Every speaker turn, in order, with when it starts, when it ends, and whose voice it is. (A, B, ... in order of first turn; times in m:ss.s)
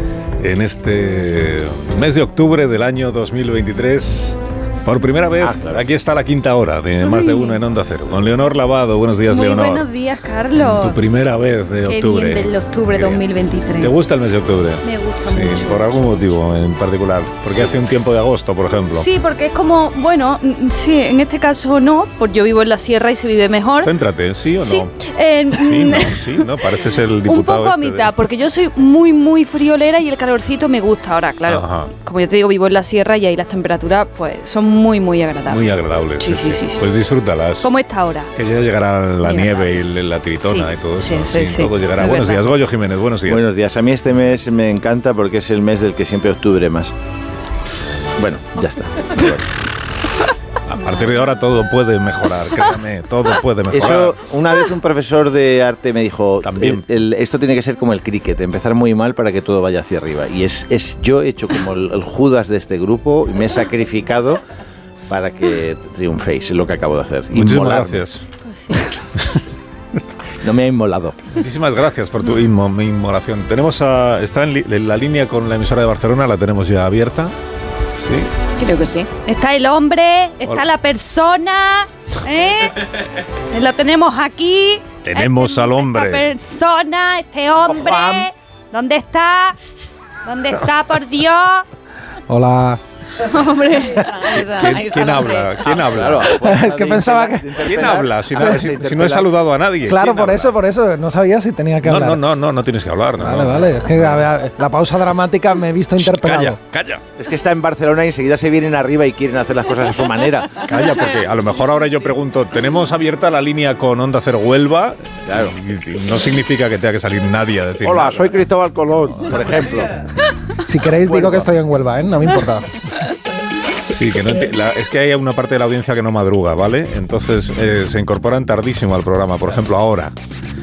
0:00.4-0:09.9 A
0:05.4-0:05.9 B
0:07.0-0:07.6 C
0:09.3-0:11.0 C
0:10.6-0:13.2 A
0:11.9-0:14.0 C
0:13.8-0:19.1 A
0:14.8-0:16.3 C
0:19.0-0:23.9 C
0:23.8-0:24.9 A
0:24.6-0:26.6 C
0:25.5-0:28.2 A
0:27.3-0:36.8 C
0:31.5-0:31.9 A
0:35.5-0:37.7 A
0:37.6-0:38.3 C
0:38.4-0:43.5 A
0:39.2-0:39.7 C
0:40.4-0:42.5 C
0:43.3-0:46.9 B
0:48.2-0:49.5 B
0:50.7-0:54.2 A
0:53.7-1:04.4 B
0:56.4-0:56.9 A
1:05.1-1:08.0 B
1:07.3-1:08.2 A
1:10.4-1:11.2 B
1:11.3-1:17.4 A
1:18.0-1:18.3 A
1:18.6-1:19.1 D
1:19.3-1:29.6 C
1:25.0-1:26.3 A
1:30.2-1:31.6 C
1:32.3-1:32.8 E
1:33.3-1:34.1 C
1:34.0-1:35.6 D
1:34.3-1:36.4 A
1:35.6-1:39.3 B
1:36.4-1:37.7 E
1:37.6-1:40.5 A
1:39.9-1:42.2 E
1:41.8-1:44.3 A
1:43.2-1:46.6 E
1:46.0-1:47.0 A
1:47.2-1:50.6 B
1:50.6-1:58.4 A
1:55.3-1:55.6 B
1:57.8-2:00.0 B
2:00.6-2:02.7 E
2:01.0-2:01.5 B
2:03.8-2:10.2 A